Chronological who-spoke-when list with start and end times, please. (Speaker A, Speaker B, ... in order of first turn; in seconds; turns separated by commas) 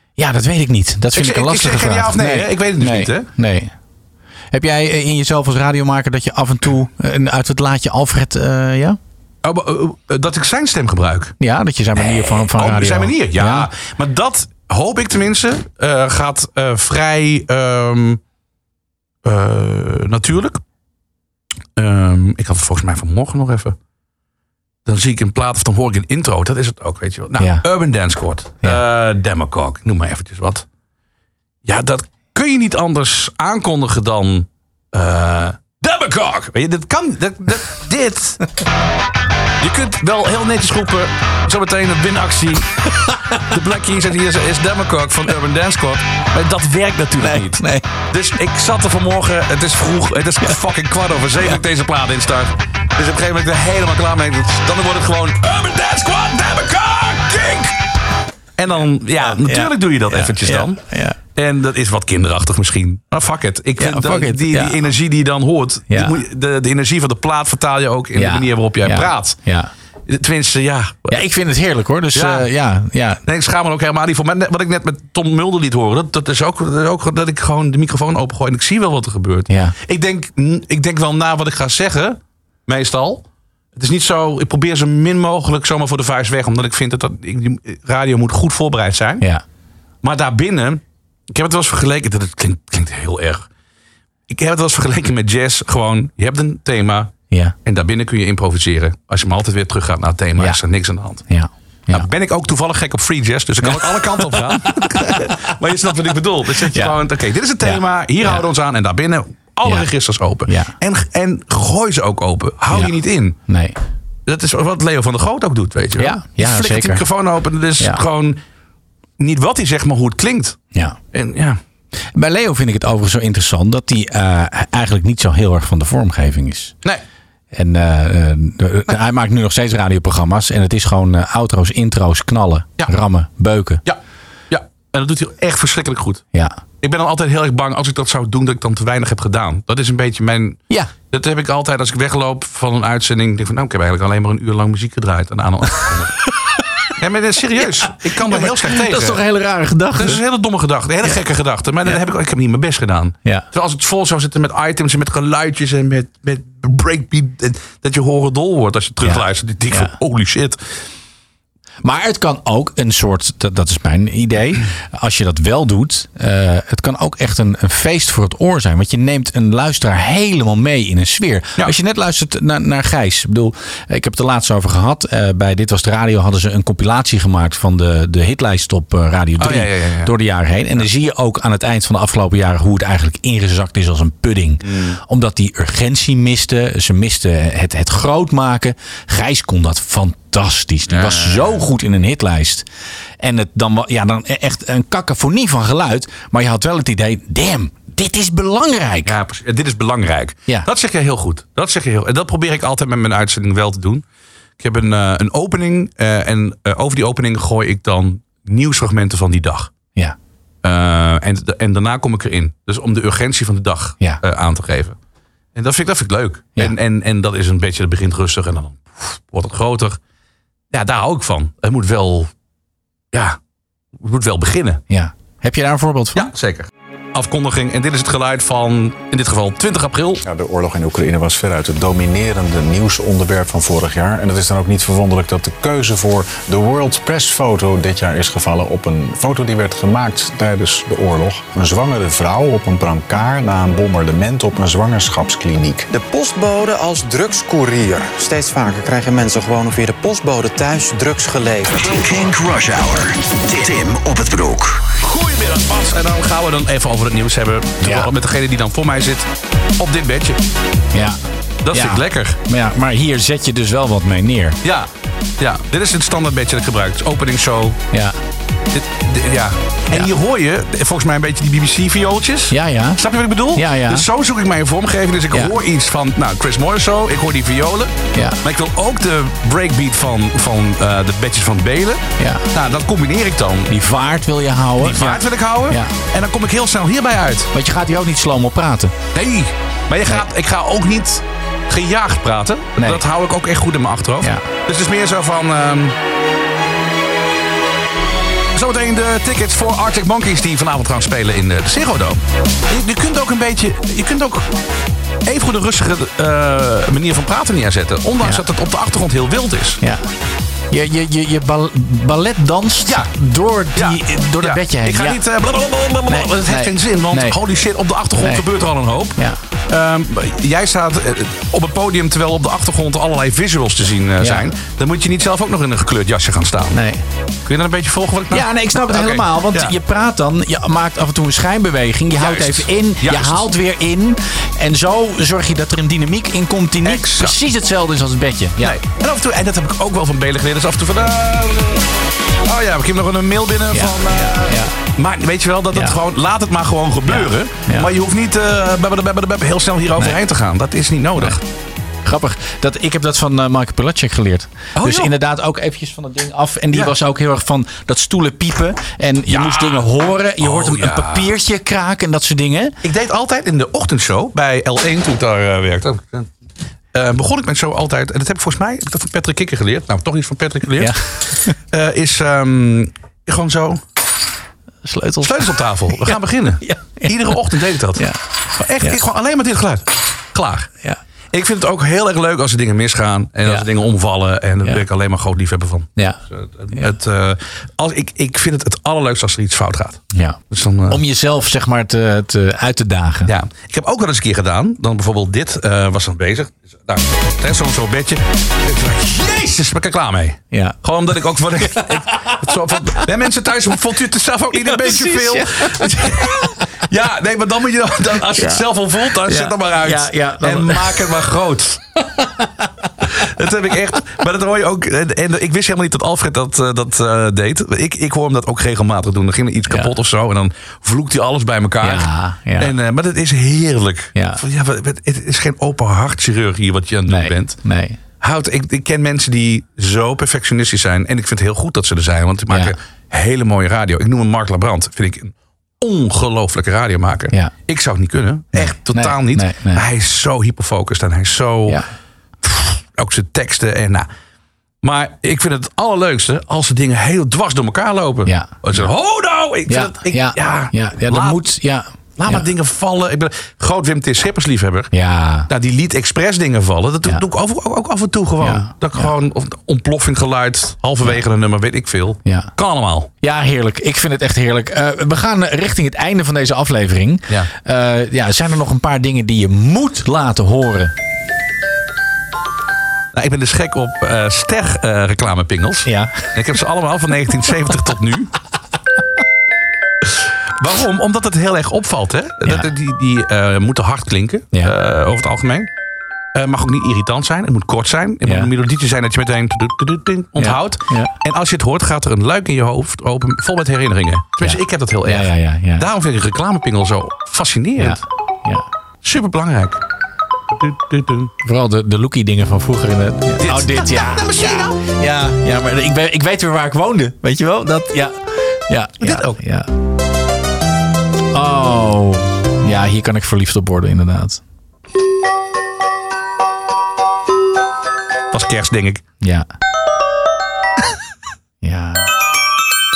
Speaker A: 0.2-3.7, Speaker B: 1.1-3.3, Speaker A: 4.5-9.0, Speaker B: 9.4-11.3, Speaker A: 11.4-13.7, Speaker B: 11.9-18.2, Speaker B: 19.2-20.6, Speaker B: 21.8-23.8, Speaker B: 24.9-30.6, Speaker A: 27.4-27.6, Speaker B: 31.6-38.4, Speaker B: 39.6-42.7, Speaker B: 43.3-57.7, Speaker A: 47.2-47.9, Speaker B: 58.6-60.8, Speaker A: 59.2-61.2, Speaker B: 61.3-69.4, Speaker A: 63.8-64.8, Speaker A: 65.9-66.2, Speaker A: 68.1-69.7, Speaker B: 70.1-71.2, Speaker A: 71.1-73.2, Speaker B: 72.1-72.5, Speaker B: 73.2-83.2, Speaker A: 79.5-79.7, Speaker B: 83.8-89.2, Speaker B: 90.0-93.5, Speaker B: 94.3-97.1, Speaker B: 97.6-101.2, Speaker A: 101.3-102.1, Speaker B: 101.9-113.4, Speaker A: 103.6-105.3, Speaker A: 106.7-107.0, Speaker A: 107.6-108.4, Speaker A: 109.6-109.9, Speaker A: 110.5-110.7, Speaker A: 113.5-113.8, Speaker B: 114.3-118.4, Speaker A: 116.0-117.0, Speaker B: 119.2-120.6, Speaker B: 121.1-121.6, Speaker A: 122.1-126.7, Speaker A: 127.5-133.8, Speaker B: 134.5-136.2, Speaker A: 136.3-136.6, Speaker B: 136.8-146.2, Speaker B: 147.0-149.2, Speaker A: 147.6-150.2, Speaker B: 149.9-160.6, Speaker A: 159.0-159.9, Speaker A: 161.8-192.7, Speaker B: 179.4-180.1, Speaker B: 184.6-185.0, Speaker B: 190.9-191.6, Speaker A: 193.2-199.2, Speaker B: 199.0-204.0, Speaker B: 204.6-209.7, Speaker B: 210.6-214.9, Speaker B: 215.5-220.0, Speaker B: 220.7-222.3, Speaker B: 223.1-223.4, Speaker B: 224.0-224.8, Speaker A: 224.9-226.3, Speaker B: 226.1-230.2, Speaker C: 230.2-245.9, Speaker D: 245.9-252.1, Speaker E: 251.7-254.8, Speaker B: 255.0-260.4, Speaker A: 257.8-258.1, Speaker A: 260.9-261.2, Speaker B: 261.6-262.4, Speaker A: 261.7-264.6, Speaker B: 265.4-267.8, Speaker A: 267.9-268.2, Speaker B: 268.7-283.7, Speaker A: 272.5-273.0, Speaker A: 273.5-274.1, Speaker A: 278.1-278.4, Speaker A: 282.2-282.4, Speaker A: 283.7-285.9, Speaker B: 284.8-287.5, Speaker A: 287.5-288.9, Speaker B: 289.1-295.9, Speaker A: 292.8-293.0, Speaker A: 294.2-294.4, Speaker B: 298.5-304.5, Speaker B: 305.2-309.8, Speaker A: 308.2-308.4, Speaker A: 310.7-315.2, Speaker B: 312.8-313.1, Speaker B: 313.7-319.2, Speaker A: 316.1-317.4, Speaker A: 318.1-318.4, Speaker B: 319.7-326.8, Speaker A: 324.2-324.5, Speaker A: 326.7-327.0, Speaker B: 327.4-329.7, Speaker A: 328.3-338.8, Speaker B: 332.1-333.5, Speaker B: 336.8-337.4, Speaker B: 338.6-341.9, Speaker B: 342.4-351.4, Speaker A: 343.7-344.7, Speaker A: 345.7-346.0, Speaker A: 347.1-347.9, Speaker A: 352.0-362.7, Speaker B: 354.8-355.1, Speaker B: 359.3-359.9, Speaker B: 360.4-361.3, Speaker B: 362.8-366.3, Speaker B: 366.9-373.8, Speaker A: 370.8-371.6, Speaker A: 374.8-377.4, Speaker B: 375.2-380.7, Speaker B: 381.3-391.0, Speaker A: 390.1-393.3, Speaker B: 393.2-411.8, Speaker A: 400.5-400.8, Speaker A: 401.6-402.5, Speaker A: 404.5-406.5, Speaker A: 408.3-411.1, Speaker A: 412.2-413.1, Speaker B: 413.1-427.6, Speaker A: 421.8-422.7, Speaker A: 424.1-424.4, Speaker A: 427.1-428.0, Speaker B: 428.2-441.8, Speaker A: 432.5-432.8, Speaker A: 438.5-439.9, Speaker B: 442.4-444.1, Speaker B: 444.8-451.4, Speaker A: 448.2-448.9, Speaker A: 449.7-452.4, Speaker B: 452.2-454.9, Speaker A: 454.9-455.5, Speaker B: 455.5-463.1, Speaker A: 458.4-459.1, Speaker A: 462.2-462.5, Speaker A: 463.2-470.9, Speaker B: 473.1-478.3, Speaker A: 475.9-476.3, Speaker B: 480.6-485.7, Speaker B: 486.3-498.0, Speaker A: 488.2-488.5, Speaker A: 490.4-491.1, Speaker A: 494.4-495.9, Speaker A: 497.8-498.6, Speaker B: 499.0-499.8, Speaker B: 500.5-501.3, Speaker A: 501.4-509.7, Speaker B: 503.4-504.7, Speaker B: 509.0-509.4, Speaker A: 511.3-514.4, Speaker B: 518.3-519.0, Speaker A: 519.2-519.5, Speaker A: 521.6-522.1